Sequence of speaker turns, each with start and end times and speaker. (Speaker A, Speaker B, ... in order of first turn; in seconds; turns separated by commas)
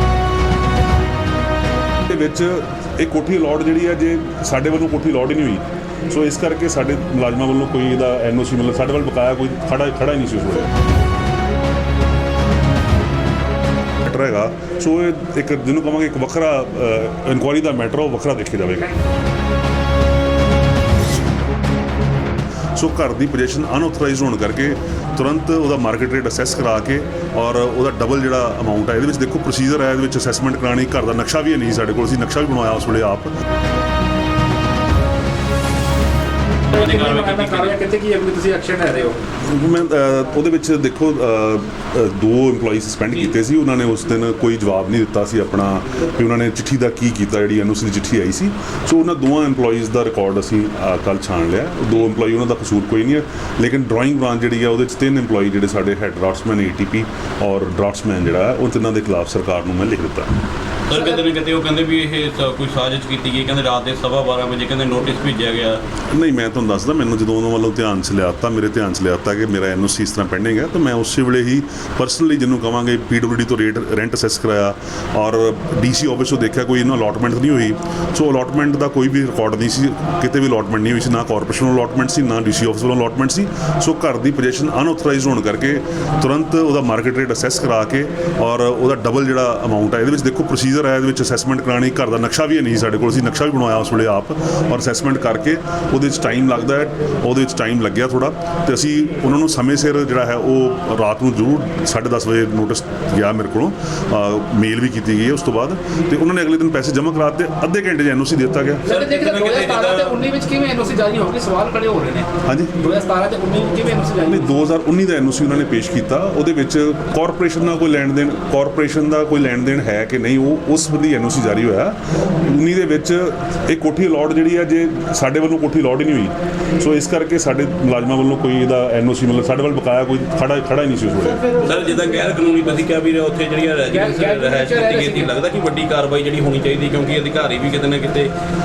Speaker A: 2.0-10.7, Speaker A: 14.0-18.9, Speaker A: 22.8-33.3, Speaker B: 36.7-37.8, Speaker C: 36.8-39.2, Speaker A: 39.4-60.3, Speaker B: 60.9-65.8, Speaker A: 66.1-108.9, Speaker B: 108.9-110.2, Speaker C: 108.9-112.3, Speaker A: 112.5-112.7, Speaker C: 112.8-114.5, Speaker A: 114.2-131.5, Speaker B: 131.5-138.3, Speaker C: 133.9-135.3